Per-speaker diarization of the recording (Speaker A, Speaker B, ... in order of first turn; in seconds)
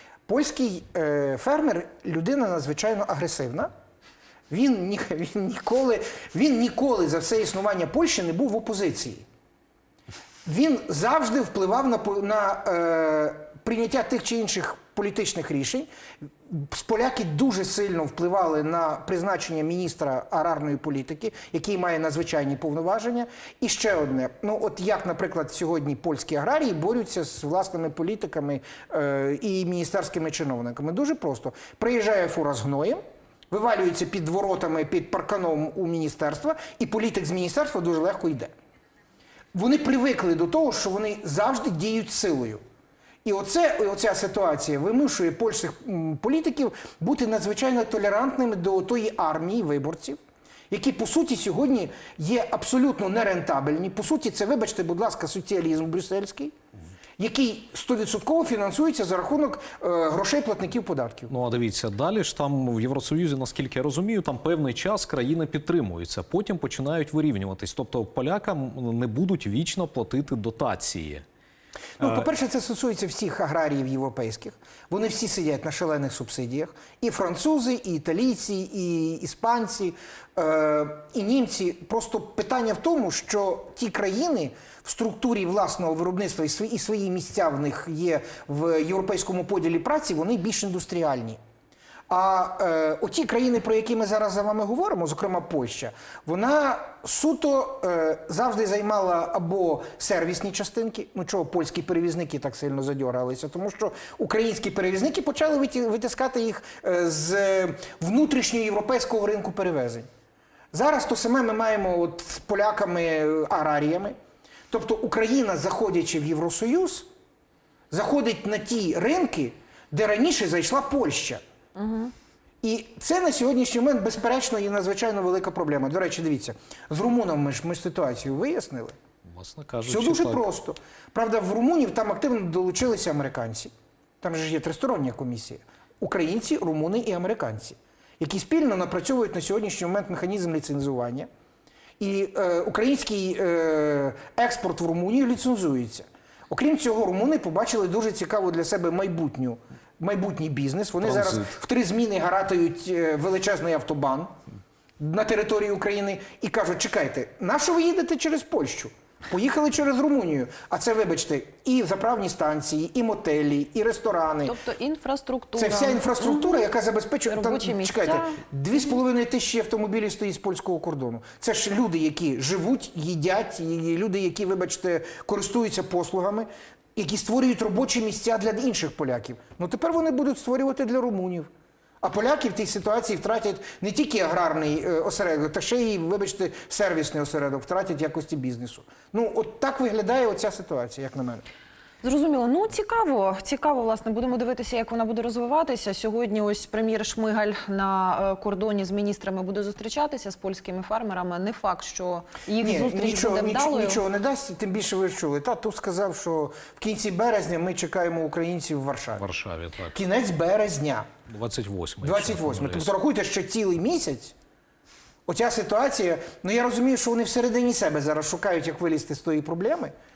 Speaker A: 0.3-3.7, 4.5-9.2, 10.4-15.9, 16.5-38.5, 39.5-42.6, 43.2-56.5, 57.2-61.3, 72.0-91.4, 92.1-110.1, 110.7-114.2, 114.7-117.1, 117.9-121.4, 122.6-128.9, 129.9-141.3, 142.0-154.3, 155.0-164.6, 165.6-181.5, 182.0-191.4, 202.6-209.2, 209.9-211.1, 212.0-214.3, 215.3-219.9
Speaker B: 61.3-71.2, 72.0-72.3, 129.3-130.4, 151.0-151.4, 209.2-210.0, 211.3-212.9
Speaker C: 121.8-122.1, 164.4-166.7, 167.3-168.4, 192.0-204.0